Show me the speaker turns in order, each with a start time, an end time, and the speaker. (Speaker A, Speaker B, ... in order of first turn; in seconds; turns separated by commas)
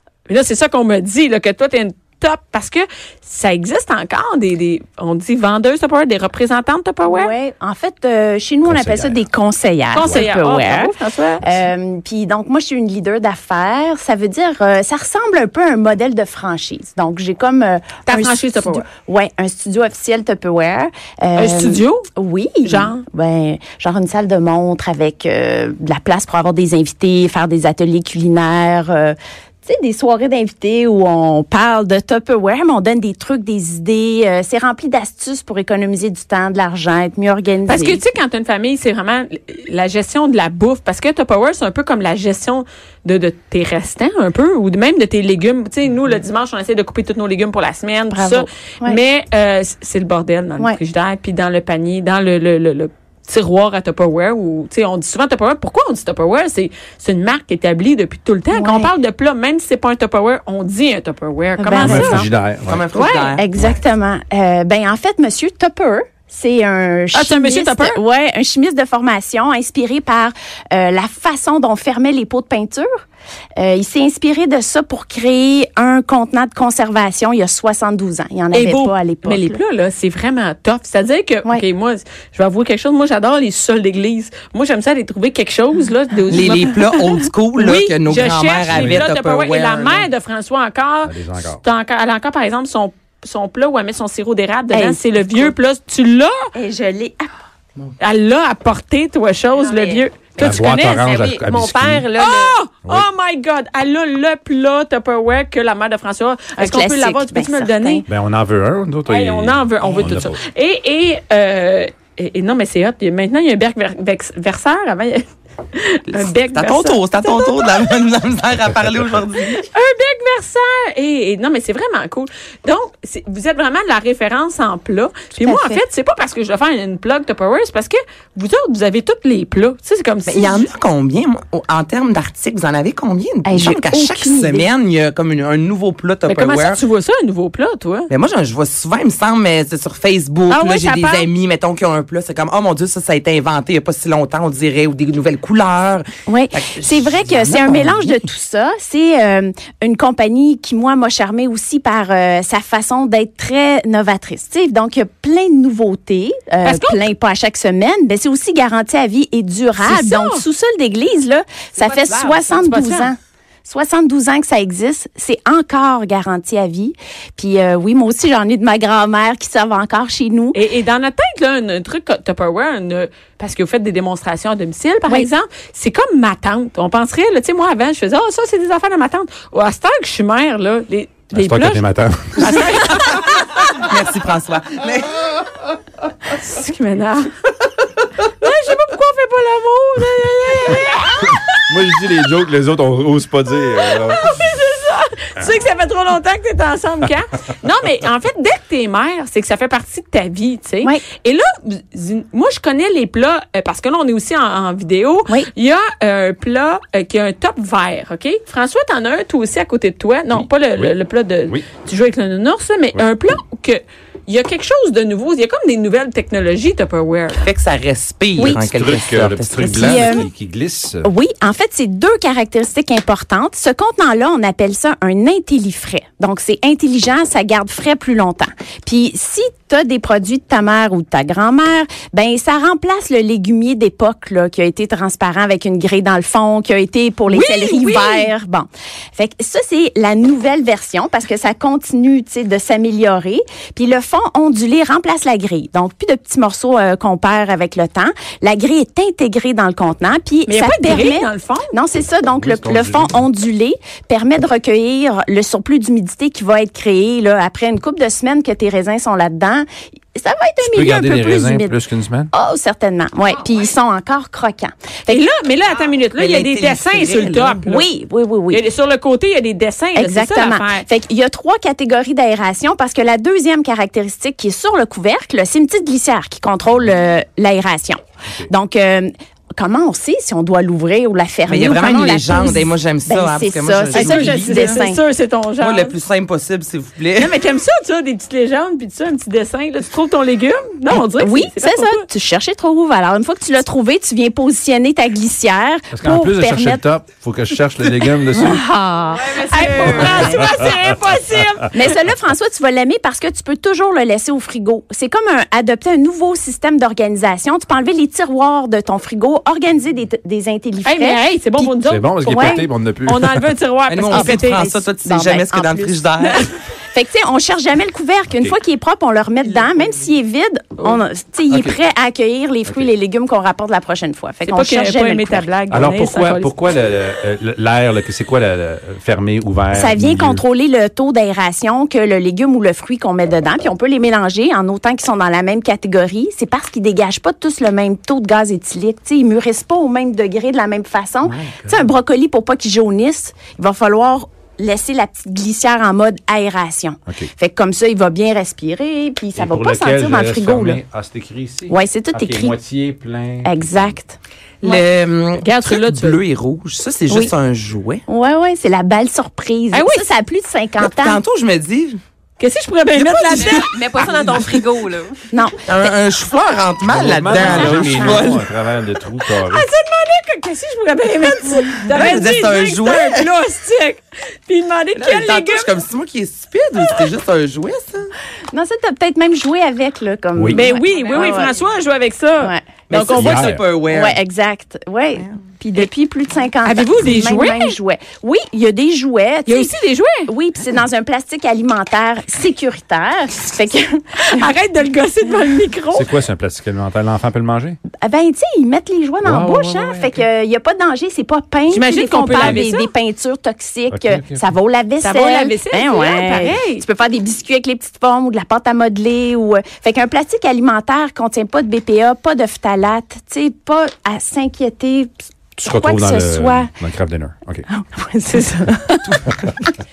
Speaker A: 0.3-7.3, Speaker B: 7.1-38.0, Speaker C: 8.7-9.2, Speaker A: 9.9-11.4, Speaker A: 18.1-18.9, Speaker A: 21.4-22.1, Speaker A: 22.6-23.1, Speaker A: 37.7-62.3, Speaker B: 48.1-49.0, Speaker B: 58.5-58.9, Speaker B: 61.6-62.3, Speaker C: 61.8-62.9, Speaker D: 62.7-63.7, Speaker A: 62.9-63.4, Speaker B: 63.4-72.9, Speaker A: 67.1-68.0, Speaker B: 73.6-79.6, Speaker A: 78.5-96.5, Speaker D: 86.3-90.1, Speaker C: 88.7-89.1, Speaker C: 91.0-91.6, Speaker B: 94.7-95.5, Speaker B: 96.5-97.3, Speaker A: 98.0-101.0, Speaker D: 99.5-100.0, Speaker C: 100.4-102.1, Speaker E: 100.5-102.6, Speaker A: 102.2-108.0, Speaker B: 106.6-108.1, Speaker C: 108.1-110.4, Speaker A: 109.0-118.1, Speaker D: 116.1-119.6, Speaker A: 119.5-130.7, Speaker B: 125.4-125.8, Speaker D: 130.3-136.8, Speaker B: 133.5-134.7, Speaker A: 136.3-138.1, Speaker D: 138.1-148.2, Speaker A: 140.5-141.3, Speaker B: 146.3-170.6, Speaker A: 156.7-157.0, Speaker A: 159.8-160.4, Speaker E: 161.8-162.6, Speaker A: 162.6-163.1, Speaker A: 170.5-181.8, Speaker C: 181.3-182.6, Speaker A: 182.4-183.1, Speaker D: 182.4-185.3, Speaker A: 186.3-187.3, Speaker A: 188.2-191.7, Speaker C: 191.3-194.4, Speaker A: 193.9-217.5, Speaker C: 210.3-210.9, Speaker D: 217.3-220.1, Speaker C: 218.4-221.1, Speaker B: 219.6-220.3, Speaker B: 221.0-261.8, Speaker A: 237.3-238.3, Speaker A: 250.5-251.7, Speaker C: 252.4-253.2, Speaker C: 260.6-262.3, Speaker B: 262.3-265.2, Speaker A: 265.1-267.9, Speaker D: 266.2-267.7, Speaker B: 267.7-268.6, Speaker A: 268.5-270.9, Speaker B: 269.9-285.0, Speaker D: 281.5-284.8, Speaker A: 283.9-285.9, Speaker D: 285.6-287.4, Speaker A: 287.2-292.0, Speaker B: 291.2-296.8, Speaker C: 295.9-298.6, Speaker B: 298.3-300.5, Speaker E: 299.3-300.2, Speaker A: 299.4-301.9, Speaker C: 300.0-300.7, Speaker B: 301.7-312.7, Speaker A: 310.9-314.6, Speaker C: 311.9-313.5, Speaker D: 313.9-316.4, Speaker B: 314.1-325.5, Speaker C: 318.3-318.6, Speaker D: 319.5-320.0, Speaker C: 321.5-321.8, Speaker A: 324.5-326.5, Speaker C: 325.7-330.4, Speaker B: 329.7-350.8, Speaker C: 341.3-341.8, Speaker C: 349.4-354.0, Speaker B: 351.7-352.5, Speaker B: 353.4-354.8, Speaker D: 354.6-358.0, Speaker A: 355.4-356.2, Speaker B: 357.1-357.3, Speaker B: 358.1-361.2, Speaker A: 359.7-360.1, Speaker D: 360.8-362.0, Speaker A: 362.4-363.7, Speaker D: 362.9-364.5, Speaker E: 363.3-365.3, Speaker B: 365.3-365.6, Speaker D: 365.7-368.4, Speaker C: 366.9-369.6, Speaker B: 367.3-368.4, Speaker A: 369.4-375.7, Speaker D: 371.9-373.3, Speaker D: 374.9-378.1, Speaker B: 378.5-381.5, Speaker C: 380.4-380.6, Speaker A: 380.5-383.6, Speaker D: 382.9-384.2, Speaker C: 383.1-383.6, Speaker B: 383.9-389.7, Speaker A: 386.6-387.8, Speaker A: 389.5-390.3, Speaker B: 390.3-394.5, Speaker A: 394.3-396.1, Speaker C: 395.9-397.8, Speaker B: 398.0-416.7, Speaker C: 399.2-400.1, Speaker A: 401.7-402.9, Speaker C: 402.3-402.6, Speaker C: 403.9-404.4, Speaker A: 405.0-406.8, Speaker C: 415.6-417.7, Speaker B: 417.7-419.7